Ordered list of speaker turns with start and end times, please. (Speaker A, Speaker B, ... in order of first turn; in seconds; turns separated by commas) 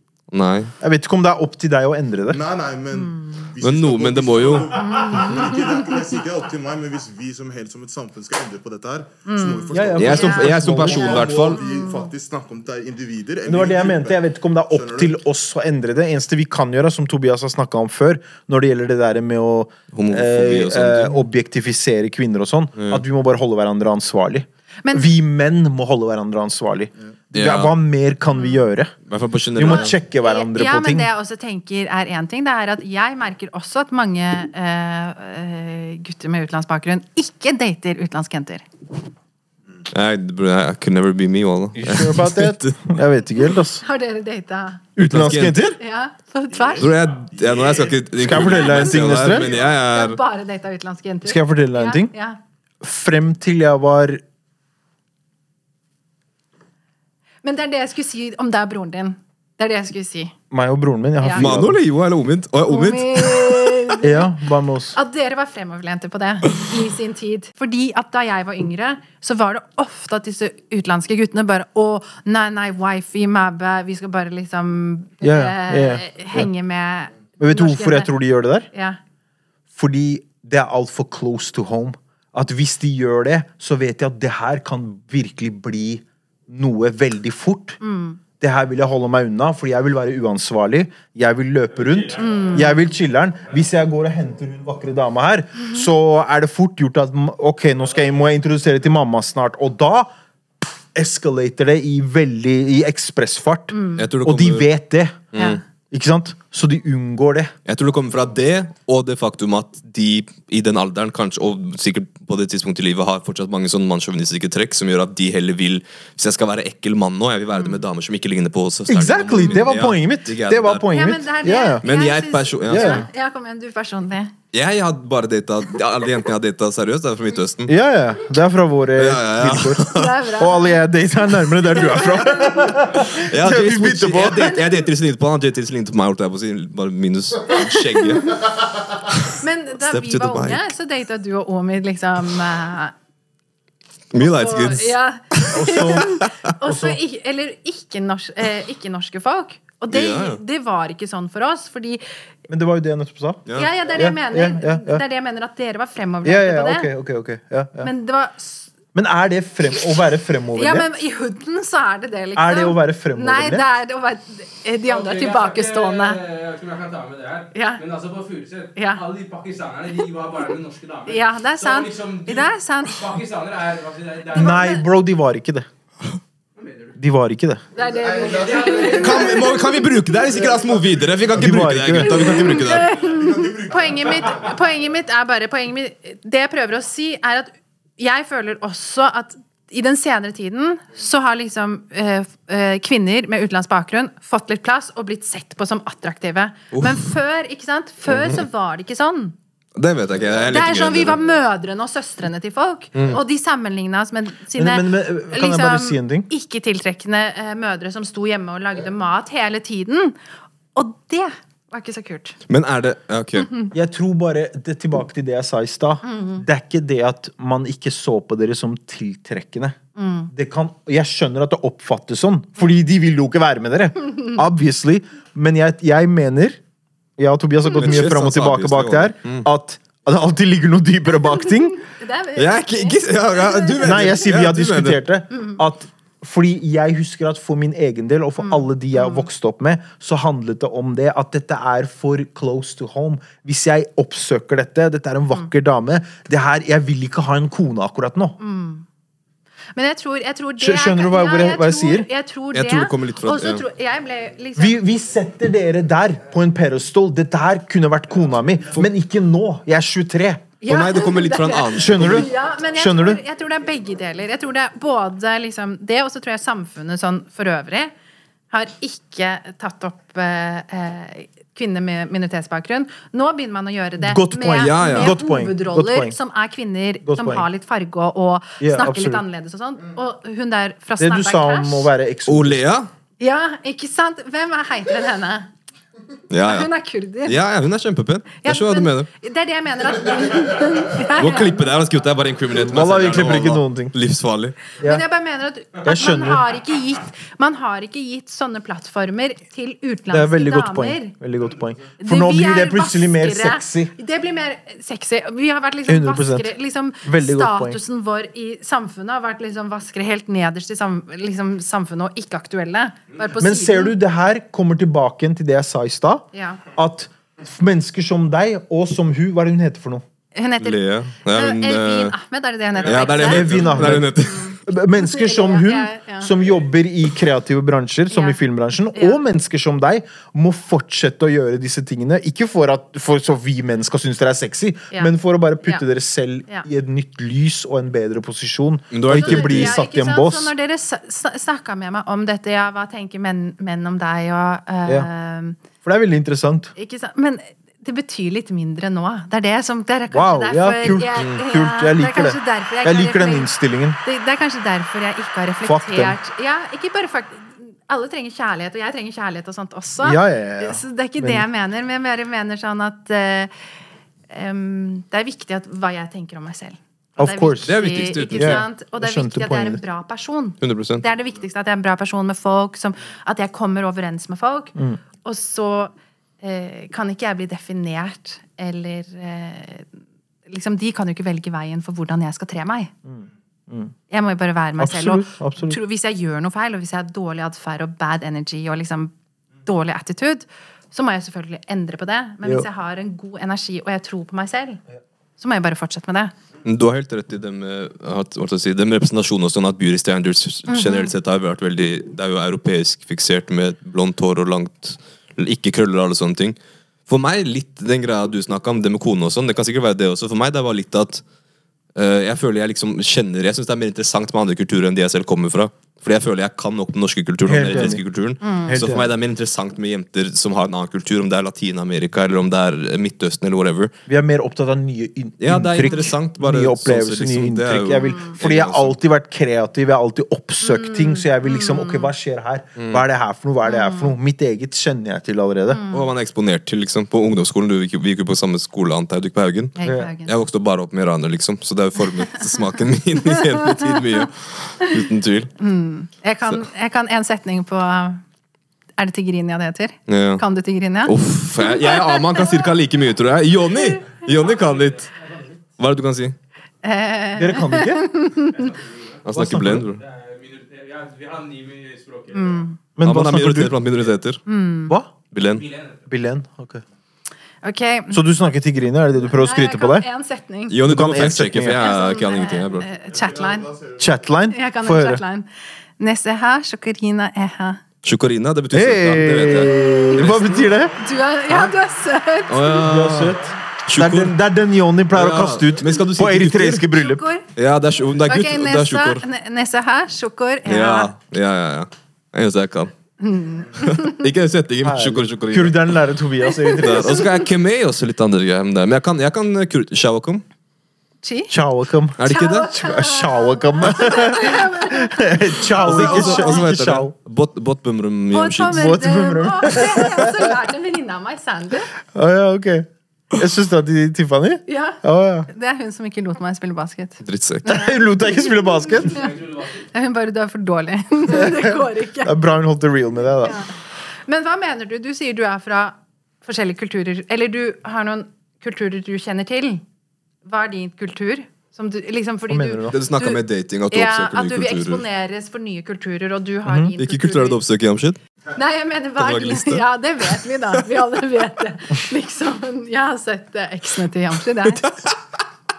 Speaker A: 0.3-0.7, Speaker B: 0.8-2.4, Speaker C: 2.3-15.2, Speaker D: 2.9-3.2, Speaker A: 3.6-4.8, Speaker D: 4.8-6.0, Speaker D: 9.2-12.1, Speaker B: 9.7-11.4, Speaker A: 9.9-11.6, Speaker B: 13.4-28.9, Speaker A: 19.9-21.2, Speaker A: 22.8-23.0, Speaker D: 24.8-25.1, Speaker A: 27.3-27.7, Speaker D: 28.3-28.7, Speaker A: 29.1-29.9, Speaker B: 29.5-31.1, Speaker D: 29.6-38.7, Speaker A: 39.9-42.8, Speaker B: 41.8-43.8, Speaker D: 43.8-46.9, Speaker B: 45.0-45.8, Speaker A: 45.0-45.7, Speaker C: 46.5-49.7, Speaker A: 46.8-50.2, Speaker B: 48.2-49.5, Speaker D: 49.7-52.4, Speaker B: 51.2-52.1, Speaker B: 52.8-54.2, Speaker D: 57.4-60.3, Speaker B: 60.5-61.8, Speaker D: 61.2-61.5, Speaker A: 61.3-63.9, Speaker D: 62.7-64.3, Speaker B: 64.0-65.0, Speaker D: 64.9-78.1, Speaker B: 75.2-76.5, Speaker B: 77.4-78.7, Speaker D: 78.7-79.0, Speaker B: 79.7-87.8, Speaker D: 87.8-88.2, Speaker B: 88.4-100.1, Speaker E: 92.1-92.7, Speaker D: 92.1-92.8, Speaker B: 100.9-105.3, Speaker D: 103.7-104.0, Speaker A: 104.0-104.7, Speaker A: 105.3-105.6, Speaker D: 105.3-105.6, Speaker B: 105.9-107.5, Speaker A: 107.7-120.9, Speaker D: 117.5-117.8, Speaker B: 118.9-121.8, Speaker D: 119.3-119.7, Speaker D: 120.9-124.3, Speaker A: 121.8-123.0, Speaker B: 122.7-123.0, Speaker A: 124.5-127.7, Speaker B: 127.7-134.6, Speaker A: 129.0-130.1, Speaker D: 129.9-130.8, Speaker D: 132.2-132.6, Speaker A: 133.1-138.4, Speaker D: 137.5-138.3, Speaker A: 139.0-140.7, Speaker D: 139.4-142.9, Speaker A: 144.1-146.4, Speaker D: 144.2-152.0, Speaker B: 145.5-147.0, Speaker A: 149.9-150.4, Speaker B: 152.5-155.0, Speaker A: 153.4-153.7, Speaker D: 153.5-156.9, Speaker B: 156.2-157.9, Speaker D: 157.8-158.7, Speaker B: 158.9-160.9, Speaker D: 160.6-166.2, Speaker B: 162.3-163.7, Speaker E: 164.8-174.7, Speaker D: 167.5-167.8, Speaker D: 168.8-169.0, Speaker D: 171.1-173.1, Speaker B: 174.3-175.7, Speaker D: 174.3-174.8, Speaker E: 176.6-177.0, Speaker B: 176.9-177.6, Speaker D: 177.7-180.4, Speaker E: 177.8-179.6, Speaker C: 178.1-179.1, Speaker A: 178.9-182.9, Speaker C: 180.3-181.7, Speaker B: 181.3-182.4, Speaker D: 181.9-199.3, Speaker C: 182.8-184.5, Speaker A: 196.7-197.1, Speaker A: 198.1-198.4, Speaker A: 199.8-201.2, Speaker D: 200.4-210.2, Speaker A: 202.9-203.2, Speaker B: 204.5-206.3, Speaker D: 210.7-212.4, Speaker A: 212.5-213.6, Speaker D: 213.4-213.7, Speaker B: 213.7-219.8, Speaker D: 216.0-216.4, Speaker D: 219.9-220.3, Speaker B: 220.3-226.6, Speaker B: 227.2-231.8, Speaker A: 227.7-229.4, Speaker D: 231.3-234.1, Speaker A: 232.3-235.0, Speaker B: 233.8-248.4, Speaker D: 238.4-239.3, Speaker D: 248.4-248.8, Speaker D: 249.7-254.8, Speaker B: 250.6-252.1, Speaker A: 252.5-253.6, Speaker B: 254.6-260.5, Speaker D: 260.6-267.9, Speaker A: 260.6-262.3, Speaker B: 261.7-263.2, Speaker D: 268.5-281.9, Speaker B: 274.0-276.1, Speaker A: 274.6-275.2, Speaker B: 277.0-277.4, Speaker B: 278.6-279.2, Speaker B: 281.0-282.6, Speaker A: 282.3-282.9, Speaker D: 283.2-285.5, Speaker A: 286.3-286.7, Speaker D: 286.4-287.4, Speaker A: 287.2-289.1, Speaker D: 288.4-291.7, Speaker A: 291.1-294.6, Speaker B: 292.7-293.9, Speaker D: 294.8-301.1, Speaker B: 295.8-296.4, Speaker B: 300.1-303.9, Speaker D: 302.0-313.9, Speaker B: 305.9-307.8, Speaker B: 313.4-320.0, Speaker D: 316.3-316.6, Speaker D: 320.3-326.3, Speaker A: 320.6-322.1, Speaker A: 322.8-324.5, Speaker B: 323.2-324.1, Speaker B: 324.6-340.5, Speaker D: 328.1-328.4, Speaker D: 328.9-329.2, Speaker A: 338.9-339.7, Speaker D: 339.1-345.6, Speaker B: 345.8-346.7, Speaker D: 346.8-353.5, Speaker B: 350.1-354.0, Speaker D: 354.0-363.5, Speaker B: 355.6-356.2, Speaker B: 360.0-361.4, Speaker D: 364.3-379.9, Speaker B: 367.2-367.7, Speaker A: 367.6-368.6, Speaker B: 368.3-369.8, Speaker A: 370.6-371.0, Speaker D: 380.4-382.9, Speaker B: 383.0-383.9, Speaker D: 384.1-389.1, Speaker B: 384.8-385.8, Speaker D: 389.6-394.8, Speaker D: 395.4-396.3, Speaker A: 396.6-406.6, Speaker D: 400.7-401.1, Speaker A: 407.1-411.2, Speaker A: 411.9-423.9, Speaker B: 417.4-418.0, Speaker D: 418.4-418.9, Speaker B: 418.6-419.1, Speaker B: 424.1-435.8, Speaker A: 425.4-428.9, Speaker D: 430.6-432.1, Speaker D: 433.6-434.1, Speaker D: 435.7-436.1, Speaker A: 435.9-445.5, Speaker D: 439.8-440.3, Speaker B: 439.8-440.1, Speaker D: 442.0-444.3, Speaker D: 445.6-448.2, Speaker D: 449.0-452.7, Speaker A: 450.1-450.4, Speaker A: 451.0-455.1, Speaker D: 453.7-454.2, Speaker E: 454.4-455.6, Speaker A: 455.8-456.4, Speaker D: 456.8-458.8, Speaker B: 457.4-458.1, Speaker E: 458.5-459.2, Speaker A: 459.2-460.0, Speaker B: 459.3-459.9, Speaker E: 460.0-462.6, Speaker D: 462.3-462.8, Speaker B: 462.9-463.8, Speaker A: 463.0-464.4, Speaker D: 464.5-464.9, Speaker A: 465.3-465.7, Speaker E: 465.6-466.0, Speaker B: 466.1-466.8, Speaker D: 467.6-468.2, Speaker B: 468.1-470.1, Speaker D: 469.3-470.8, Speaker A: 470.7-472.9, Speaker B: 470.8-471.8, Speaker D: 471.8-473.7, Speaker C: 473.3-474.0, Speaker B: 474.0-475.2, Speaker D: 474.5-477.8, Speaker A: 478.0-480.8, Speaker B: 478.7-480.9, Speaker D: 479.4-480.2, Speaker D: 480.9-482.9, Speaker A: 482.5-484.3, Speaker B: 482.8-487.2, Speaker A: 485.1-486.9, Speaker D: 486.9-487.4, Speaker A: 487.5-489.2, Speaker D: 488.2-491.1, Speaker A: 490.6-492.9, Speaker D: 493.2-494.2, Speaker A: 493.8-495.9, Speaker B: 494.8-497.3, Speaker D: 496.4-497.4, Speaker A: 496.7-500.4, Speaker D: 501.2-501.5, Speaker B: 501.5-507.1, Speaker A: 502.2-502.7, Speaker D: 502.2-506.7, Speaker A: 505.7-508.9, Speaker D: 508.3-511.9, Speaker B: 508.7-510.5, Speaker B: 512.1-515.5, Speaker D: 514.7-522.4, Speaker A: 517.2-517.8, Speaker B: 517.7-519.3, Speaker E: 519.1-519.8, Speaker B: 521.3-523.6, Speaker D: 523.4-529.8, Speaker D: 530.4-537.6, Speaker B: 532.5-533.0, Speaker A: 532.9-535.0, Speaker B: 536.6-536.9, Speaker A: 537.0-538.2, Speaker D: 538.5-544.9, Speaker A: 539.2-540.4, Speaker A: 544.7-545.1